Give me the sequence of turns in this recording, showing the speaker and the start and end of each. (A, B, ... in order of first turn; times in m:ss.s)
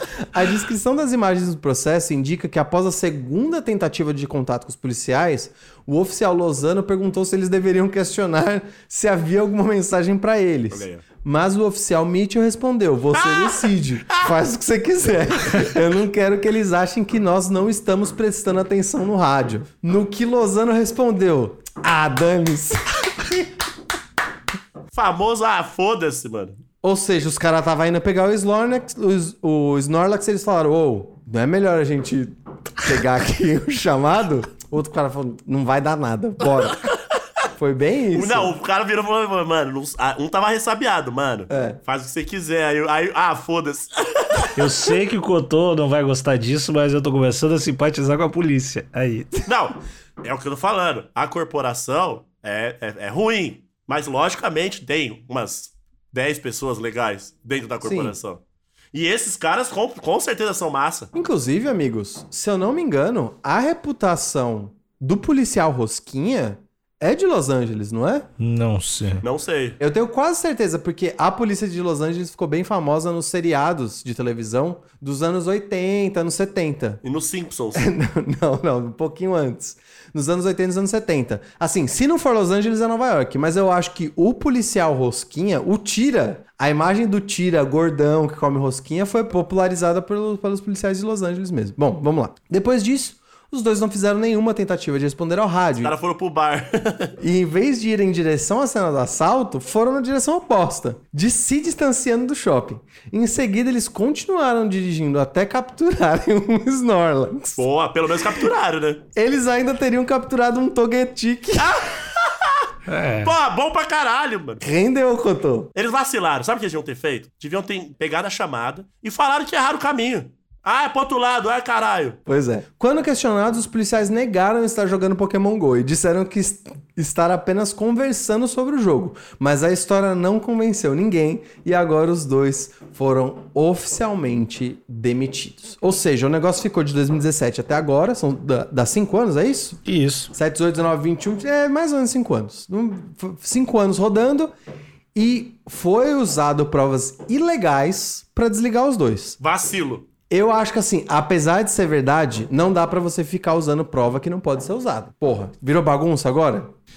0:00.3-0:23.5 A
0:10.7-0:11.0 B
0:13.2-0:13.8 B
0:24.9-0:26.6 B
0:26.8-0:36.8 A
0:37.6-0:38.5 A
0:38.1-0:44.5 B
0:41.5-0:41.8 A
0:44.6-0:49.3 C
0:49.4-0:58.4 B
0:57.8-0:58.1 A
0:58.9-1:01.1 B
1:01.1-1:08.2 A
1:08.4-1:09.2 C
1:09.2-1:09.8 B
1:09.8-1:17.0 A
1:17.0-1:17.9 B
1:17.7-1:35.9 A
1:35.8-1:37.1 B
1:37.2-1:47.6 A
1:47.6-1:49.0 B
1:49.1-1:51.8 A
1:51.6-1:52.7 B
1:52.9-1:53.3 C
1:53.2-1:54.6 B
1:54.6-1:55.7 A
1:55.8-2:02.2 B
2:02.2-2:19.8 A
2:19.8-2:20.3 C
2:20.3-2:24.5 A
2:25.1-2:29.4 A
2:29.4-2:30.0 B
2:30.3-2:36.7 A